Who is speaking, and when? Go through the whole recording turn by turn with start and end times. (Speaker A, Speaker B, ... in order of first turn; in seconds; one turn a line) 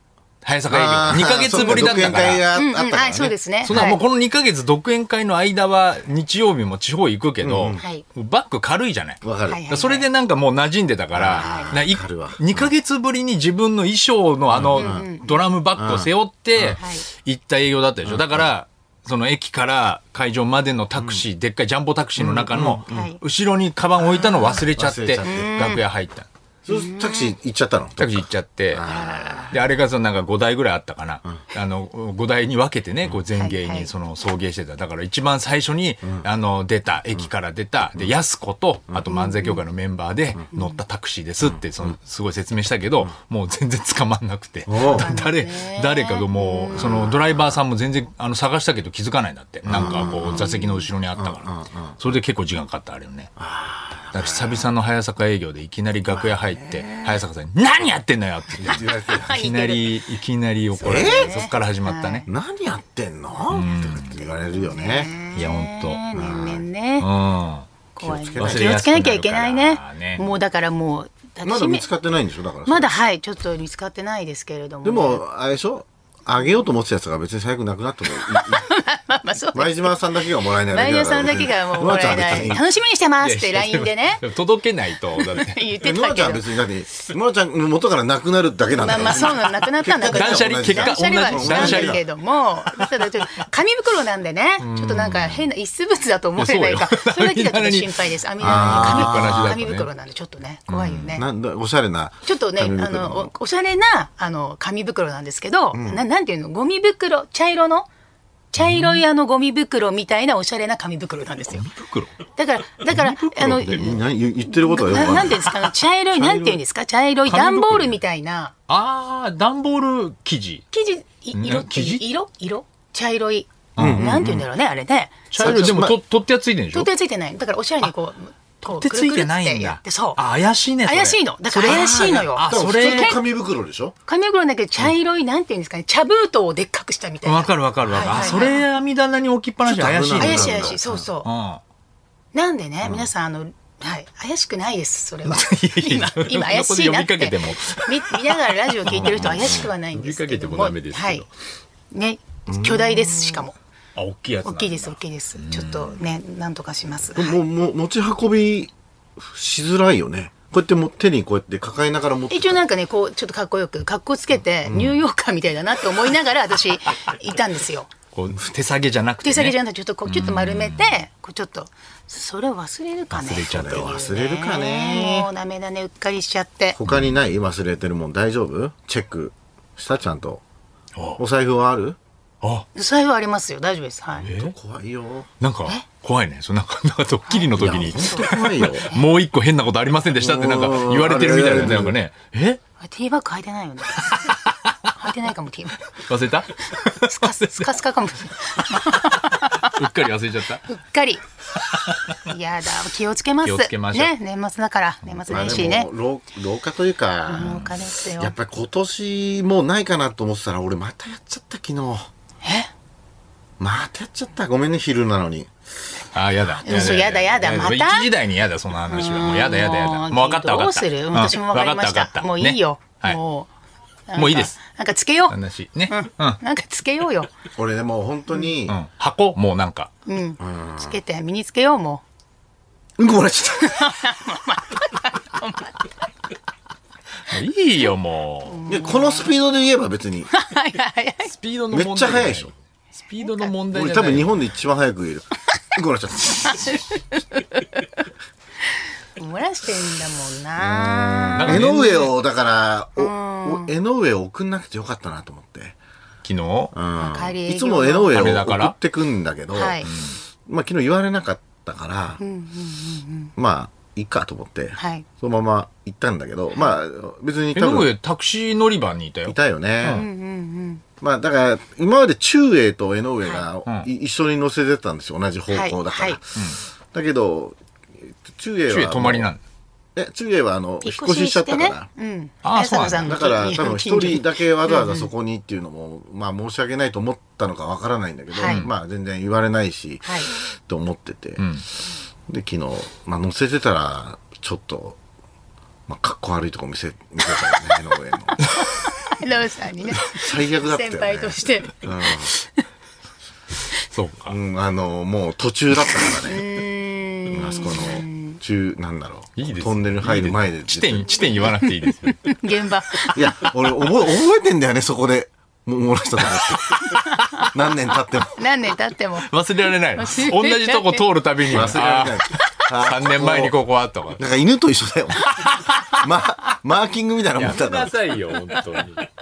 Speaker A: 0.4-2.5
Speaker B: 0.7-3.9
Speaker C: 1.6-1.9
Speaker C: 2.5-4.0
Speaker A: 3.6-26.3
Speaker B: 7.4-7.8
Speaker C: 7.8-8.1
Speaker B: 9.2-9.6
Speaker C: 9.5-10.1
Speaker B: 11.2-12.7
Speaker C: 11.3-11.7
Speaker B: 14.5-15.1
Speaker C: 14.7-15.4
Speaker B: 15.8-16.8
Speaker C: 16.8-17.1
Speaker B: 18.1-18.5
Speaker B: 21.0-21.2
Speaker B: 22.2-23.1
Speaker C: 22.9-23.2
Speaker C: 24.0-24.6
Speaker B: 24.5-25.5
Speaker C: 25.2-25.8
Speaker B: 26.6-29.6
Speaker C: 26.7-27.3
Speaker A: 28.0-28.8
Speaker C: 28.9-29.5
Speaker A: 29.5-51.5
Speaker C: 33.4-33.9
Speaker C: 39.1-39.6
Speaker C: 40.5-40.8
Speaker B: 44.7-45.1
Speaker C: 44.9-47.0
Speaker B: 46.7-47.6
Speaker B: 49.6-50.5
Speaker C: 49.8-50.9
Speaker B: 51.1-52.1
Speaker A: 52.0-53.3
Speaker B: 53.4-54.7
Speaker A: 54.1-62.3
Speaker B: 56.1-57.2
Speaker B: 58.6-59.5
Speaker C: 58.7-59.9
Speaker C: 60.8-62.3
Speaker B: 60.8-61.4
Speaker B: 62.3-65.1
Speaker A: 63.5-64.2
Speaker C: 64.5-67.1
Speaker A: 65.3-66.0
Speaker B: 66.1-66.6
Speaker A: 67.0-67.7
Speaker C: 68.0-71.8
Speaker B: 68.0-68.9
Speaker A: 68.4-70.2
Speaker B: 71.4-72.9
Speaker C: 72.7-75.2
Speaker B: 74.8-78.7
Speaker C: 78.2-80.0
Speaker B: 79.5-82.6
Speaker C: 80.6-84.2
Speaker A: 83.2-85.7
Speaker C: 85.2-86.5
Speaker B: 85.8-92.0
Speaker C: 88.8-101.3
Speaker A: 90.1-92.0
Speaker A: 94.6-95.5
Speaker A: 96.4-99.9
Speaker B: 98.4-99.6
Speaker A: 100.7-101.2
Speaker B: 101.1-103.3
Speaker C: 102.2-107.9
Speaker B: 105.7-106.0
Speaker C: 108.5-111.7
Speaker A: 108.6-109.0
Speaker A: 111.5-112.1
Speaker C: 112.3-114.0
Speaker A: 112.8-114.0
Speaker B: 113.5-115.5
Speaker C: 114.5-118.5
Speaker B: 116.1-116.6
Speaker A: 117.3-118.0
Speaker A: 118.7-120.7
Speaker C: 120.7-125.7
Speaker A: 121.3-122.0
Speaker A: 123.8-124.1
Speaker B: 123.8-124.5
Speaker A: 125.3-126.9
Speaker B: 125.4-126.0
Speaker C: 126.7-130.2
Speaker A: 128.6-133.2
Speaker C: 130.8-133.2
Speaker B: 131.7-134.0
Speaker C: 134.1-138.6
Speaker A: 137.2-141.6
Speaker B: 138.0-138.5
Speaker B: 139.6-141.0
Speaker C: 140.2-141.3
Speaker C: 142.3-151.2
Speaker A: 145.2-151.3
Speaker B: 148.9-149.7
Speaker C: 151.9-153.6
Speaker B: 152.5-153.4
Speaker A: 153.9-156.0
Speaker C: 154.4-157.4
Speaker B: 157.2-162.6
Speaker C: 162.3-167.9
Speaker B: 164.7-165.0
Speaker A: 168.1-171.0
Speaker C: 169.2-176.8
Speaker A: 173.1-173.9
Speaker B: 173.4-175.3
Speaker B: 176.8-180.4
Speaker A: 176.8-177.2
Speaker B: 181.2-182.0
Speaker C: 182.8-184.3
Speaker A: 184.2-184.5
Speaker B: 184.3-185.3
Speaker A: 185.4-192.6
Speaker C: 187.3-188.3
Speaker B: 187.6-188.9
Speaker B: 190.2-191.9
Speaker C: 192.8-194.4
Speaker C: 195.0-195.8
Speaker A: 195.9-197.8
Speaker C: 197.0-199.8
Speaker A: 198.6-200.7
Speaker C: 200.7-201.2
Speaker C: 202.3-205.9
Speaker A: 203.4-204.1
Speaker A: 205.1-205.6
Speaker B: 205.3-212.1
Speaker C: 207.3-208.3
Speaker A: 207.4-207.7
Speaker C: 212.4-212.7
Speaker B: 213.6-215.5
Speaker A: 216.1-223.2
Speaker C: 216.6-218.1
Speaker B: 216.7-217.0
Speaker C: 218.9-223.5
Speaker C: 224.1-225.4
Speaker A: 224.2-224.6
Speaker A: 225.3-226.4
Speaker C: 225.9-227.3
Speaker B: 227.6-228.8
Speaker A: 228.7-229.9
Speaker C: 230.1-232.0
Speaker B: 230.4-231.0
Speaker B: 233.0-233.9
Speaker C: 233.6-235.8
Speaker A: 237.3-238.6
Speaker C: 238.5-239.3
Speaker B: 238.7-240.3
Speaker C: 240.3-241.3
Speaker A: 241.3-244.3
Speaker B: 241.7-242.5
Speaker C: 243.2-243.5
Speaker B: 243.7-246.7
Speaker C: 246.6-247.8
Speaker C: 249.2-252.0
Speaker B: 250.6-255.8
Speaker A: 251.4-252.1
Speaker C: 253.0-253.7
Speaker A: 256.2-256.7
Speaker B: 256.7-259.9
Speaker C: 257.0-258.2
Speaker A: 258.1-258.8
Speaker C: 259.5-259.9
Speaker A: 259.9-260.2
Speaker B: 260.5-262.2
Speaker C: 262.2-263.3
Speaker B: 263.4-267.9
Speaker C: 264.8-265.1
Speaker A: 267.5-270.1
Speaker B: 269.3-270.1
Speaker C: 269.9-270.8
Speaker B: 271.0-279.3
Speaker C: 275.5-276.2
Speaker A: 278.7-279.4
Speaker B: 279.9-281.9
Speaker C: 280.8-285.1
Speaker A: 282.4-283.2
Speaker B: 283.0-291.5
Speaker C: 288.3-288.6
Speaker A: 288.5-288.7
Speaker C: 290.1-290.3
Speaker A: 291.4-291.6
Speaker B: 292.3-295.0
Speaker B: 295.9-298.4
Speaker C: 298.9-301.8
Speaker B: 300.0-302.3
Speaker A: 303.9-304.4
Speaker B: 304.3-306.5
Speaker C: 306.3-308.4
Speaker B: 307.3-311.4
Speaker A: 309.4-312.3
Speaker C: 311.5-313.4
Speaker B: 313.1-318.4
Speaker C: 316.9-317.5
Speaker C: 318.4-319.3
Speaker A: 319.2-324.2
Speaker C: 319.9-321.1
Speaker B: 321.5-323.6
Speaker B: 324.2-327.9
Speaker A: 327.4-329.1